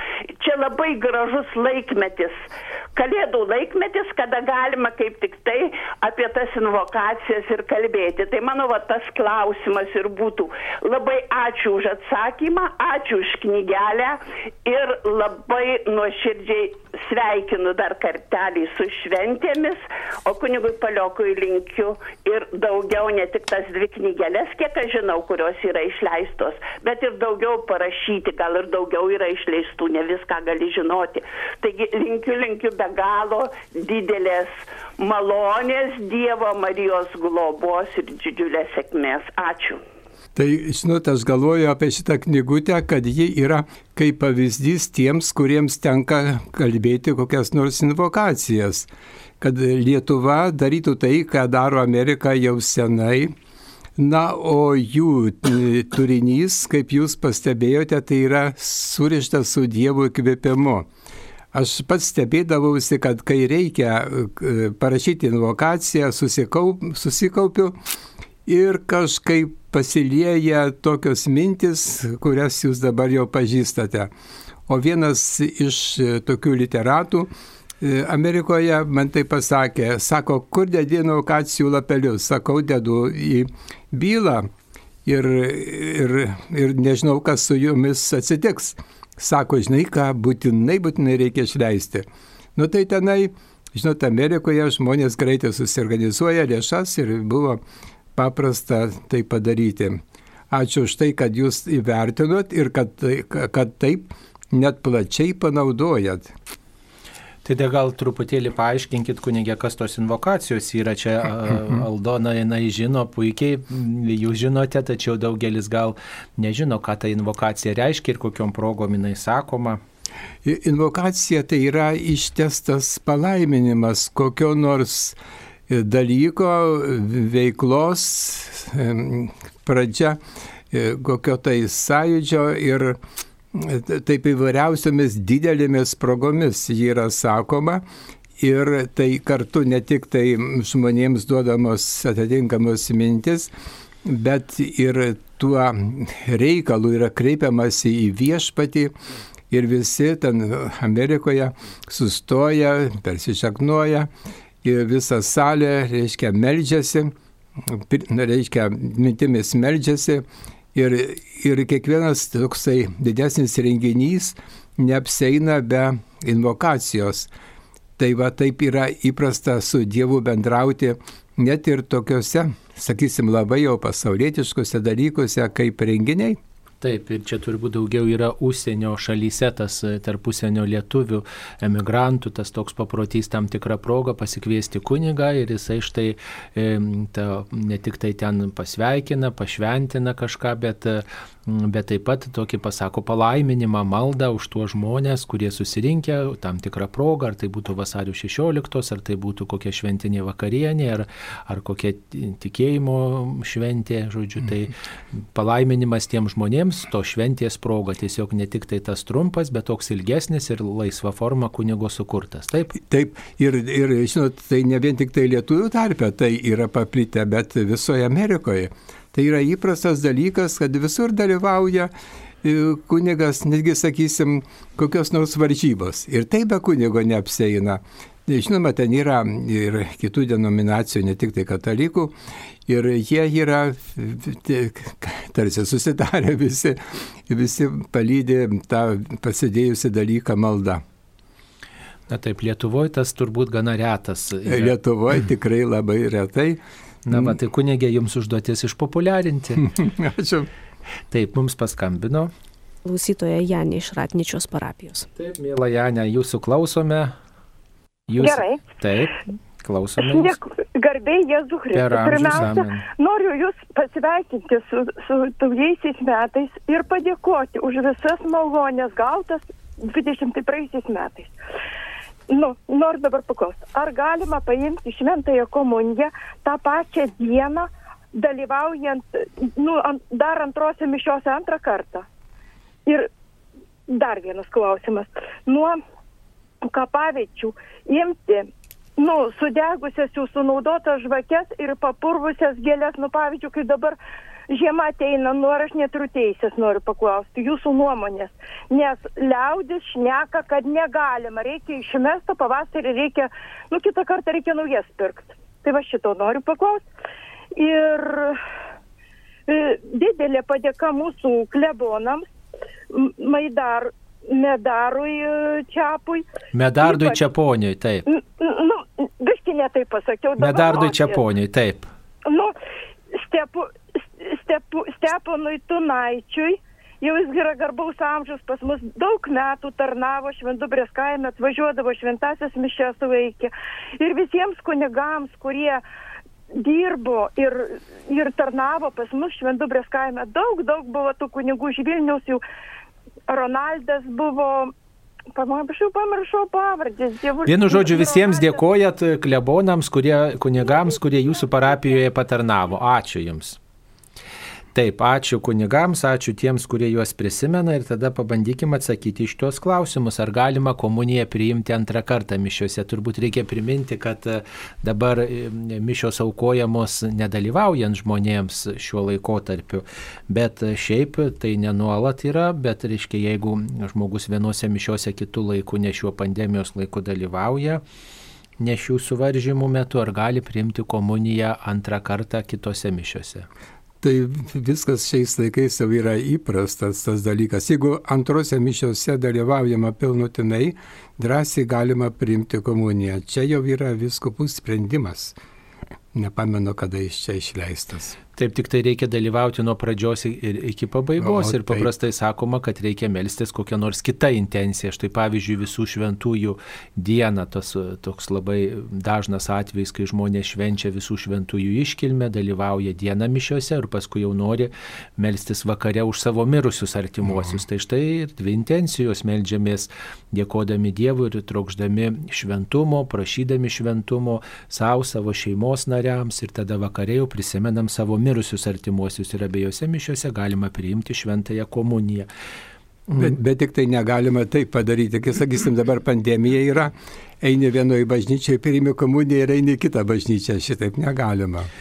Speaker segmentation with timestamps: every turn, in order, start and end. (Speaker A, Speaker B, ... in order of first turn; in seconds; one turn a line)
Speaker A: 0.4-39.8
Speaker B: 40.3-48.9
Speaker B: 49.4-53.3
Speaker B: 54.0-60.9
Speaker B: 61.5-67.8
Speaker B: 68.5-74.1
Speaker B: 74.7-84.5
Speaker B: 85.0-97.6
Speaker B: 98.2-106.3
Speaker C: 107.4-119.8
Speaker B: 120.4-125.2
Speaker B: 125.7-133.0
Speaker B: 133.5-137.8
Speaker B: 138.4-143.5
Speaker B: 144.0-148.9
Speaker B: 149.5-154.1
Speaker B: 154.6-167.3
Speaker B: 168.0-176.4
Speaker C: 176.8-204.7
Speaker C: 205.3-212.8
Speaker B: 212.8-221.9
Speaker B: 222.4-232.1
Speaker B: 232.7-240.8
Speaker C: 242.1-244.7
Speaker B: 244.4-246.6
Speaker C: 247.0-249.7
Speaker B: 249.6-250.5
Speaker C: 251.1-252.3
Speaker D: 252.8-255.1
Speaker C: 255.2-257.1
Speaker C: 258.1-260.4
Speaker E: 258.2-258.6
Speaker E: 260.0-271.3
Speaker C: 261.7-262.8
Speaker E: 272.3-282.1
Speaker E: 283.9-285.8
Speaker E: 286.6-294.0
Speaker E: 294.5-306.9
Speaker E: 307.5-308.4
Speaker E: 309.5-312.2
Speaker E: 312.9-316.2
Speaker C: 316.5-318.1
Speaker E: 316.8-317.2
Speaker E: 318.1-321.2
Speaker C: 320.4-321.9
Speaker E: 322.3-322.5
Speaker E: 323.1-335.8
Speaker E: 336.6-342.4
Speaker E: 343.3-344.7
Speaker E: 345.3-348.6
Speaker C: 347.4-353.6
Speaker C: 354.7-377.8
Speaker C: 378.6-383.5
Speaker B: 384.0-395.4
Speaker B: 396.1-398.2
Speaker C: 398.4-432.3
Speaker B: 401.2-401.9
Speaker B: 433.1-441.7